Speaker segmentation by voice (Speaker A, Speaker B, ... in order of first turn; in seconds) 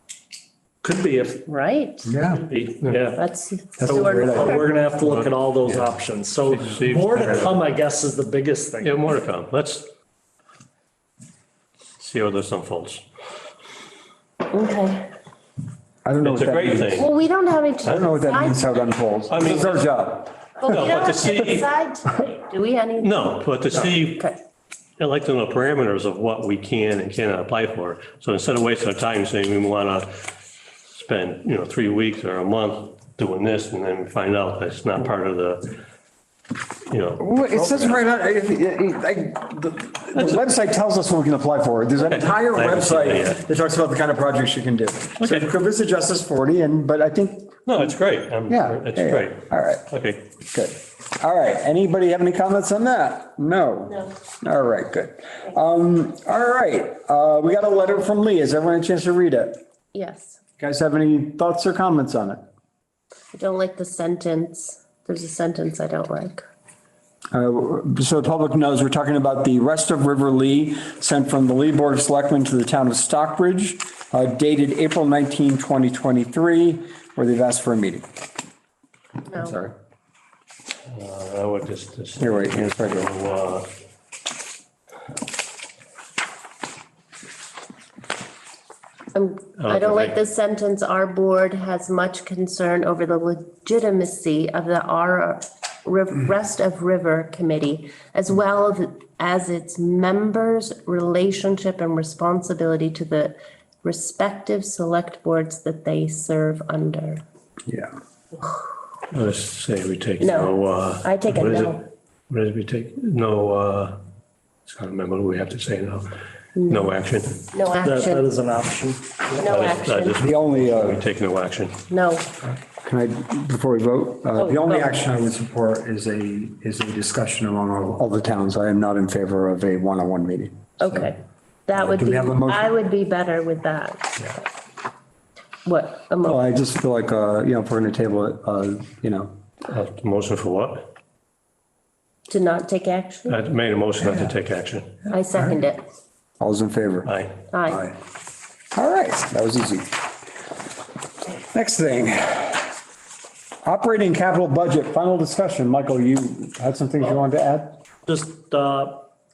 Speaker A: 0.8-1.5, 2.4-3.2, 3.9-9.1, 117.8-119.5, 158.1-159.1
Speaker B: 1.5-2.2, 3.2-4.7, 14.5-15.1, 17.0-18.7, 20.6-24.4, 59.9-60.4, 63.3-66.4, 79.3-79.5, 89.1-107.2, 110.2-111.8, 116.6-116.9, 117.5-118.3, 119.4-120.2, 121.9-122.3, 124.4-124.9, 130.8-134.4, 135.7-136.4, 142.3-143.4, 145.1-145.8, 147.5-147.9
Speaker C: 2.1-2.4, 3.8-4.6, 16.0-17.1, 17.8-20.4, 37.2-47.6, 48.5-49.9, 50.5-59.6, 60.6-62.4, 67.3-78.1, 79.3-79.7, 82.2-83.1, 107.7-107.9, 120.2-121.0, 122.5-131.1, 131.8-132.7, 136.2-139.3, 144.0-144.3, 146.4-147.1, 147.7-147.9, 148.7-149.9, 151.5-152.7, 153.6-157.8
Speaker D: 2.8-3.1, 5.0-5.9, 6.5-7.7, 8.8-9.9, 12.0-13.0, 16.2-17.1, 19.3-19.8, 20.7-21.7, 23.0-24.3, 25.0-30.1, 30.9-35.8, 36.9-38.0, 40.1-40.4, 42.0-43.4, 45.2-45.5, 47.7-50.2, 80.9-83.7, 89.6-90.2, 109.1-114.0, 114.7-116.1, 116.7-117.5, 119.5-121.8, 139.7-140.9, 143.3-144.9, 147.1-147.3